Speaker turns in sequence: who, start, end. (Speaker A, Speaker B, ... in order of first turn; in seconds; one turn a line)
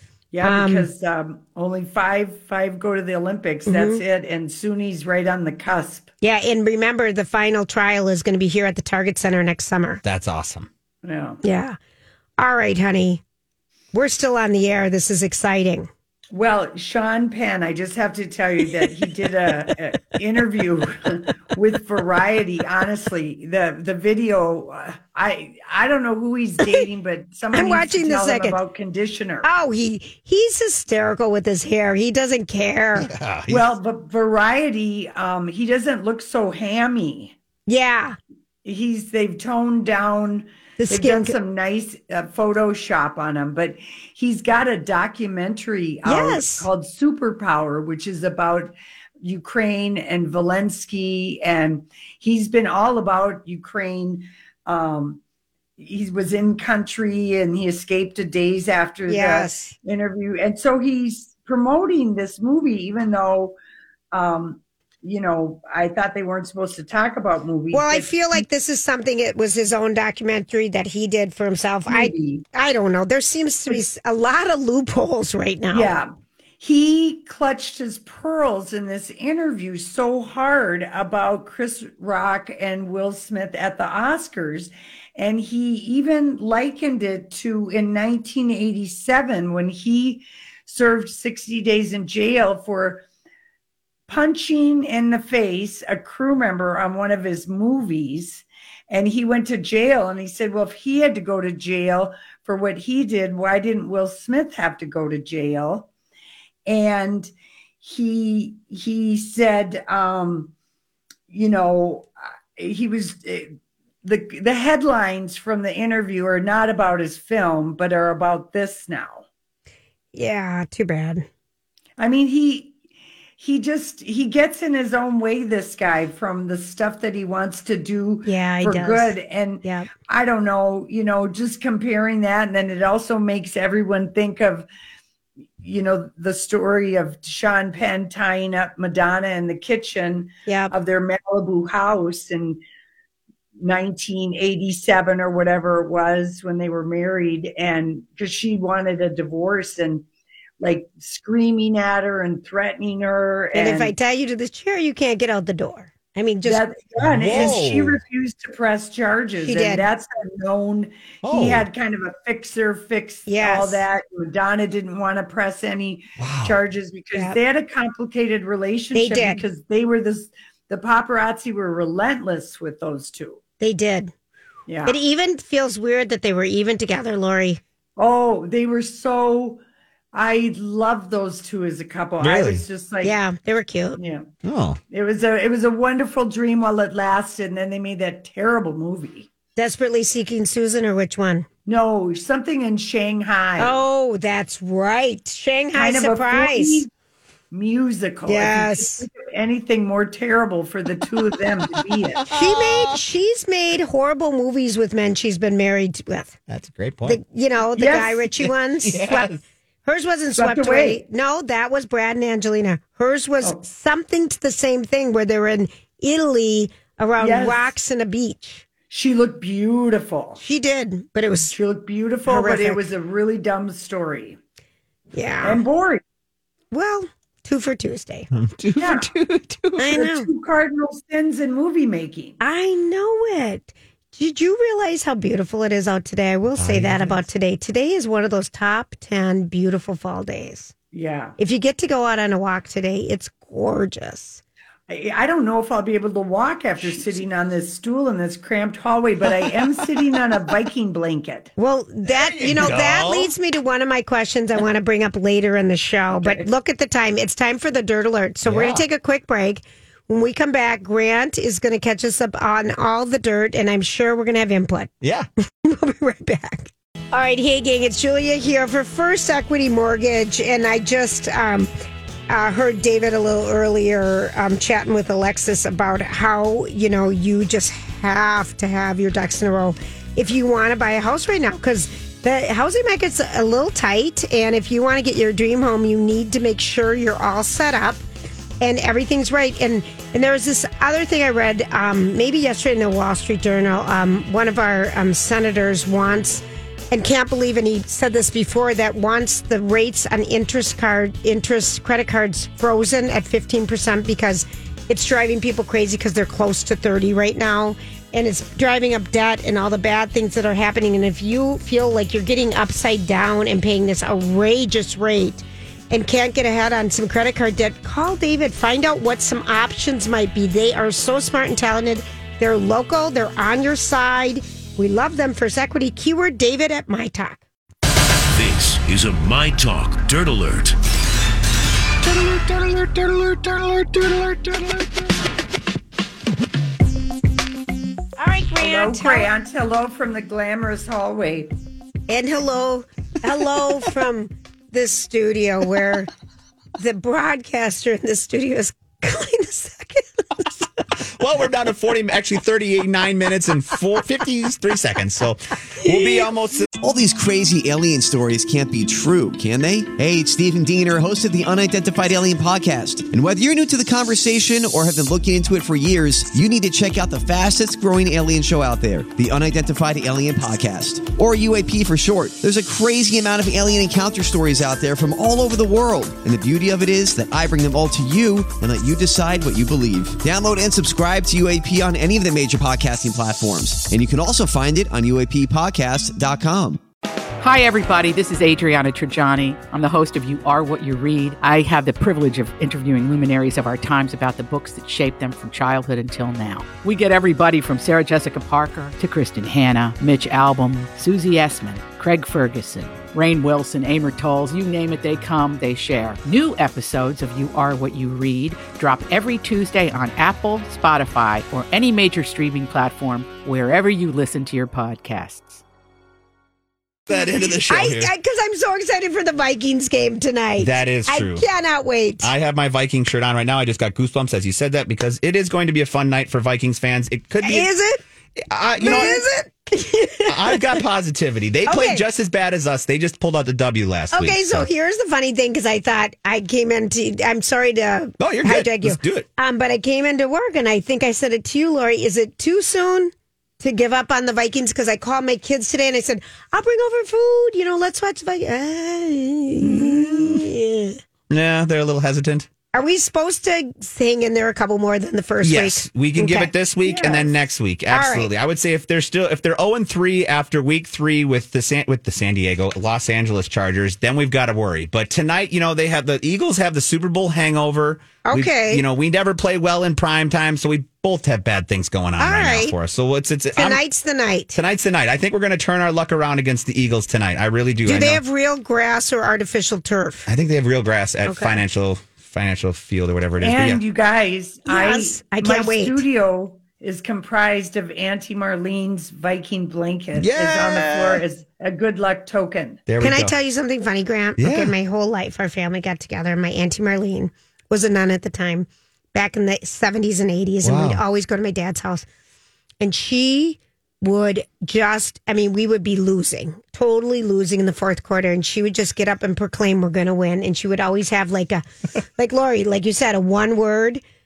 Speaker A: 0.3-6.1
Speaker B: 0.4-0.9
Speaker B: 3.7-4.0
Speaker B: 6.2-10.0
Speaker C: 10.0-10.7
Speaker A: 11.0-11.4
Speaker B: 11.4-11.8
Speaker B: 12.4-13.2
Speaker B: 13.9-15.9
Speaker A: 16.3-29.5
Speaker B: 27.5-28.6
Speaker B: 29.4-33.1
Speaker C: 33.0-33.6
Speaker A: 33.5-37.3
Speaker B: 37.7-38.2
Speaker A: 38.6-55.2
Speaker B: 40.8-41.3
Speaker B: 46.0-46.7
Speaker A: 55.8-63.5
Speaker B: 59.1-59.7
Speaker A: 64.1-68.4
Speaker B: 67.7-75.9
Speaker A: 71.9-72.4
Speaker A: 75.7-76.1
Speaker A: 76.6-93.0
Speaker A: 94.1-105.9
Speaker A: 106.7-110.5
Speaker A: 111.3-119.2
Speaker B: 120.1-121.3
Speaker A: 122.0-122.8
Speaker A: 123.4-134.7
Speaker B: 128.2-129.9
Speaker A: 135.6-142.6
Speaker B: 140.5-140.7
Speaker A: 143.6-150.0
Speaker A: 150.6-153.9
Speaker B: 153.5-156.6
Speaker A: 156.4-173.4
Speaker C: 157.0-158.0
Speaker B: 159.4-159.8
Speaker C: 161.2-161.7
Speaker B: 163.3-163.8
Speaker C: 166.2-166.6
Speaker B: 168.9-169.4
Speaker B: 173.6-174.1
Speaker A: 174.7-175.0
Speaker B: 174.8-177.6
Speaker A: 178.0-179.6
Speaker A: 180.1-183.2
Speaker C: 182.2-182.6
Speaker B: 183.0-184.0
Speaker A: 184.0-184.3
Speaker C: 184.4-184.8
Speaker A: 184.9-189.3
Speaker B: 189.6-191.5
Speaker A: 191.7-193.8
Speaker B: 193.6-196.9
Speaker A: 195.7-196.9
Speaker A: 197.5-202.2
Speaker B: 198.3-199.0
Speaker C: 202.2-203.0
Speaker B: 202.3-206.3
Speaker C: 206.5-207.2
Speaker B: 207.0-209.3
Speaker A: 207.7-208.3
Speaker C: 208.8-209.4
Speaker B: 209.8-218.6
Speaker A: 210.3-211.0
Speaker A: 217.2-217.7
Speaker A: 218.9-220.4
Speaker B: 220.4-221.5
Speaker A: 221.5-224.4
Speaker B: 222.3-222.8
Speaker B: 225.1-225.6
Speaker A: 225.4-226.0
Speaker B: 226.7-228.3
Speaker C: 228.3-229.9
Speaker A: 228.8-229.1
Speaker B: 229.8-230.3
Speaker A: 229.9-232.4
Speaker B: 232.4-240.7
Speaker C: 236.6-237.2
Speaker A: 240.9-241.4
Speaker B: 241.4-244.4
Speaker A: 244.9-251.5
Speaker B: 251.6-264.9
Speaker C: 252.1-253.3
Speaker A: 256.1-256.5
Speaker C: 258.4-258.8
Speaker C: 265.0-265.3
Speaker B: 265.6-271.7
Speaker B: 272.3-288.0
Speaker B: 288.6-327.4
Speaker D: 328.3-330.7
Speaker C: 332.2-334.6
Speaker B: 338.2-339.3
Speaker A: 338.6-341.5
Speaker B: 342.1-346.1
Speaker B: 346.8-350.7
Speaker C: 351.0-356.6
Speaker B: 355.8-356.3
Speaker E: 356.8-386.8
Speaker F: 387.4-415.6
Speaker C: 417.1-418.1
Speaker B: 417.1-422.3
Speaker C: 420.6-421.4
Speaker C: 422.2-427.7
Speaker B: 427.4-428.0
Speaker C: 428.4-429.2
Speaker B: 428.8-430.8
Speaker C: 430.3-434.7
Speaker B: 431.6-432.0
Speaker B: 434.1-451.0
Speaker C: 438.2-439.3
Speaker C: 451.3-452.5
Speaker B: 452.7-456.5
Speaker C: 455.4-473.8
Speaker A: 456.8-457.4
Speaker B: 457.9-458.3
Speaker B: 468.2-468.8
Speaker B: 472.2-472.7
Speaker B: 473.5-474.6
Speaker C: 474.5-478.2
Speaker B: 477.9-480.3
Speaker C: 480.3-483.8
Speaker B: 481.3-481.6
Speaker A: 483.4-492.8
Speaker B: 484.6-486.0
Speaker C: 490.2-491.2
Speaker C: 492.9-493.3
Speaker B: 493.0-502.0
Speaker C: 494.4-494.7
Speaker C: 500.6-501.0
Speaker B: 502.8-511.6
Speaker B: 512.2-514.0